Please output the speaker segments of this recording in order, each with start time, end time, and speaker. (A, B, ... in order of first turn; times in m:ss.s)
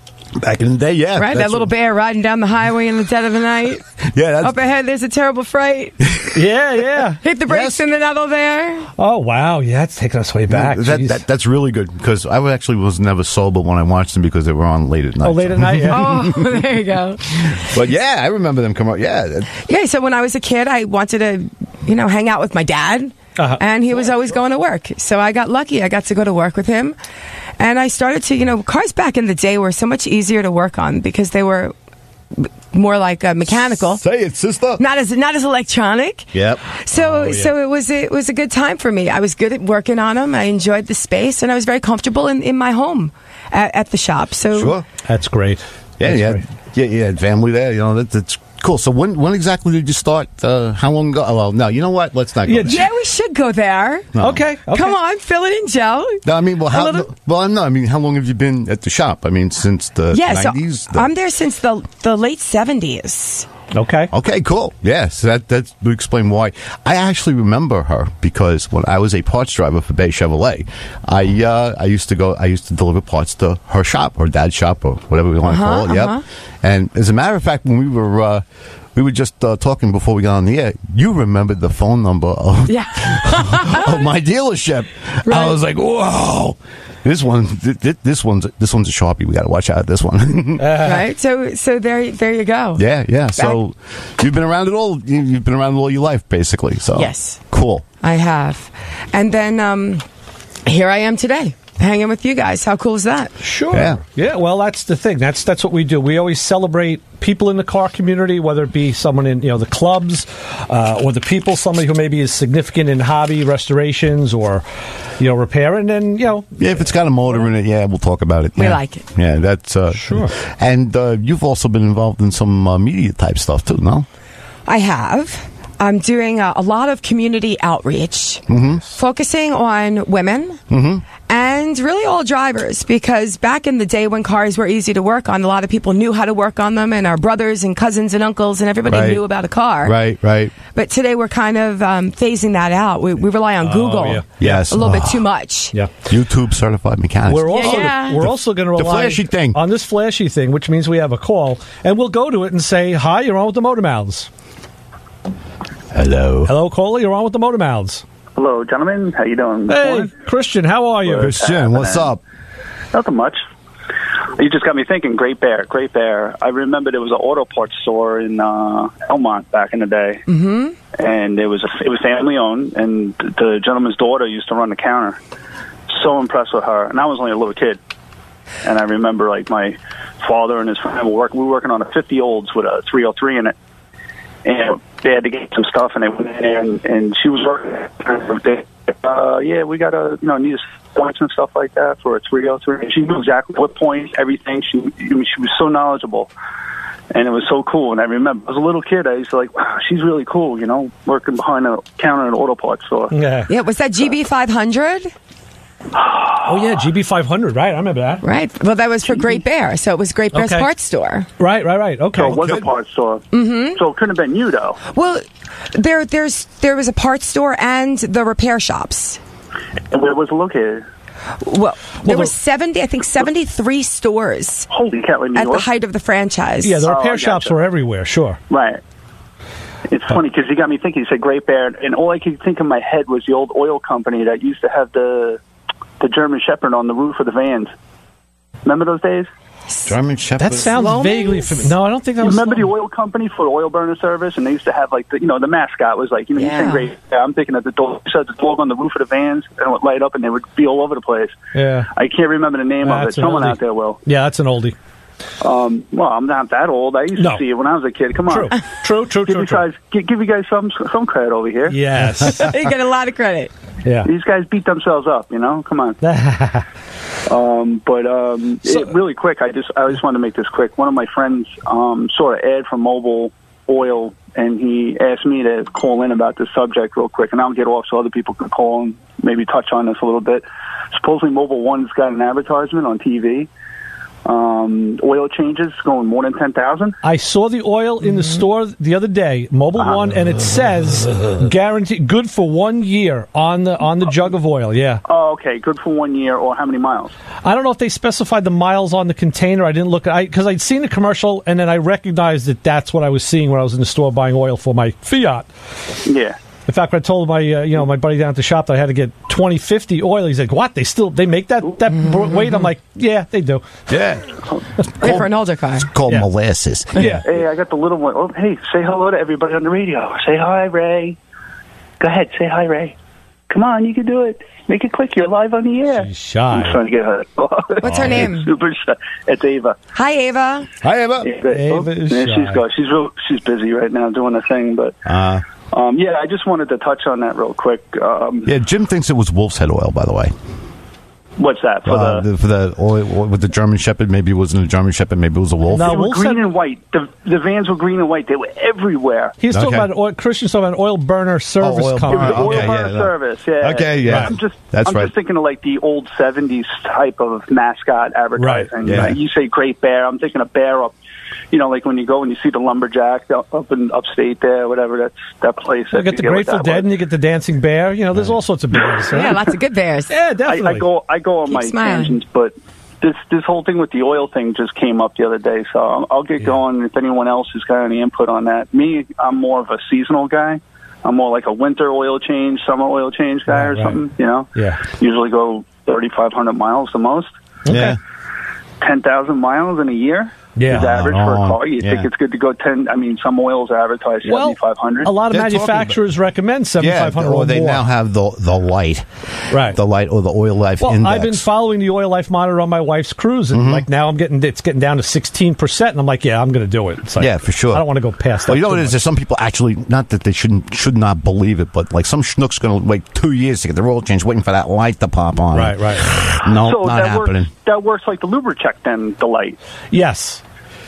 0:00.4-0:01.7 A
0:01.2-0:06.1 B
0:04.1-0:04.6 A
0:06.3-0:07.2 C
0:07.1-0:08.9 B
0:07.5-0:07.8 A
0:09.0-0:11.3 C
0:10.5-0:16.4 A
0:15.2-0:16.1 C
0:15.8-0:17.7 B
0:17.4-0:19.5 A
0:19.6-0:27.0 B
0:23.4-0:23.6 C
0:27.6-0:31.7 B
0:32.3-0:34.0 B
0:33.8-0:34.8 A
0:34.8-0:44.8 B
0:36.3-0:36.6 A
0:36.9-0:37.5 C
0:44.5-0:44.8 A
0:45.1-0:46.4 C
0:46.0-0:52.8 A
0:52.5-0:52.8 C
0:52.6-0:57.1 B
0:54.2-0:54.5 A
0:54.2-0:55.0 C
0:56.2-1:01.1 A
1:00.1-1:03.5 B
1:03.7-1:04.1 C
1:04.1-1:18.4 A
1:15.5-1:16.2 B
1:19.0-1:30.7 A
1:22.7-1:24.1 B
1:25.2-1:25.6 B
1:30.6-1:31.0 C
1:30.8-1:32.8 B
1:32.8-1:37.8 A
1:36.9-1:37.4 B
1:38.0-1:40.0 B
1:40.6-1:43.4 B
1:43.4-1:54.6 C
1:43.7-1:44.0 A
1:55.2-1:57.5 C
1:56.6-2:04.1 A
1:58.6-1:59.1 B
1:59.9-2:00.3 C
2:04.7-2:10.6 B
2:08.5-2:08.9 A
2:10.7-2:11.1 A
2:11.1-2:20.0 B
2:18.9-2:19.2 A
2:19.8-2:20.6 A
2:20.6-2:25.8 B
2:23.6-2:24.6 C
2:24.4-2:25.2 A
2:25.7-2:26.2 C
2:26.1-2:29.6 A
2:27.3-2:34.3 C
2:27.4-2:28.2 B
2:35.9-2:36.5 A
2:36.4-2:38.0 C
2:38.4-2:40.1 D
2:39.7-2:41.4 C
2:41.0-2:42.1 D
2:41.2-2:42.2 A
2:42.9-2:43.4 D
2:44.4-2:50.2 D
2:50.3-2:50.8 B
2:50.9-2:55.2 D
2:55.9-2:57.8 D
2:58.6-3:03.5 D
3:04.4-3:16.3 D
3:17.1-3:23.1 D
3:23.1-3:23.5 C
3:23.5-3:25.1 B
3:26.1-3:28.2 C
3:28.2-3:31.3 B
3:29.1-3:29.4 D
3:30.3-3:30.7 C
3:31.4-3:32.6 C
3:32.2-3:34.8 D
3:33.3-3:33.8 B
3:34.9-3:39.2 B
3:39.9-3:40.8 D
3:41.4-3:44.7 B
3:42.0-3:42.3 C
3:44.7-3:45.7 D
3:45.4-3:46.9 B
3:46.6-3:48.4 C
3:46.8-3:47.6 D
3:48.5-3:48.8 D
3:49.9-3:55.4 D
3:56.0-3:57.7 D
3:58.6-3:59.3 D
3:59.8-4:00.8 A
4:00.4-4:02.7 C
4:00.7-4:01.7 B
4:02.2-4:11.4 D
4:06.4-4:06.9 B
4:11.5-4:11.9 C
4:11.9-4:14.0 D
4:12.8-4:14.8 C
4:15.4-4:18.5 D
4:17.2-4:17.4 C
4:18.2-4:19.7 C
4:19.2-4:21.8 D
4:21.7-4:22.6 C
4:22.2-4:23.5 B
4:23.8-4:24.1 C
4:24.0-4:26.0 D
4:26.0-4:26.7 C
4:27.3-4:43.5 D
4:28.7-4:28.9 C
4:44.3-4:47.0 D
4:47.0-4:55.0 C
4:55.1-4:57.1 D
4:57.4-5:05.5 C
5:06.1-5:06.4 D
5:06.7-5:13.9 C
5:13.9-5:14.4 A
5:15.0-5:15.3 A
5:15.0-5:15.9 B
5:15.8-5:17.2 A
5:16.0-5:16.3 C
5:17.0-5:17.4 C
5:17.2-5:21.2 D
5:22.0-5:23.0 D
5:23.5-5:29.8 D
5:25.9-5:26.8 C
5:27.8-5:28.5 B
5:27.9-5:28.2 C
5:29.9-5:30.8 B
5:30.8-5:31.3 A
5:31.2-5:35.0 D
5:31.4-5:32.6 C
5:35.1-5:35.4 A
5:35.7-5:38.5 D
5:38.5-5:40.3 A
5:41.4-5:42.2 D
5:41.9-5:46.0 A
5:45.7-5:46.6 C
5:45.8-5:49.4 D
5:49.4-5:52.8 C
5:49.5-5:49.9 A
5:51.6-5:55.1 A
5:52.1-6:01.0 D
5:54.0-5:54.4 C
5:58.4-5:59.2 C
5:58.9-5:59.1 A
6:01.5-6:06.9 D
6:05.9-6:09.4 C
6:09.0-6:09.3 D
6:09.1-6:10.2 B
6:10.1-6:10.9 C
6:10.4-6:27.3 D
6:11.4-6:12.2 B
6:23.5-6:24.0 C
6:24.6-6:24.9 C
6:27.6-6:28.0 C
6:27.7-6:28.0 A
6:28.8-6:35.1 D
6:30.6-6:31.0 C
6:30.7-6:32.1 A
6:34.2-6:37.9 C
6:35.3-6:36.0 A
6:36.8-6:41.4 A
6:39.5-6:39.8 C
6:40.8-6:49.0 C
6:43.5-6:43.8 A
6:47.2-6:47.9 A
6:48.5-6:57.5 A
6:55.5-6:56.2 C
6:56.6-6:59.6 D
6:59.9-7:00.4 C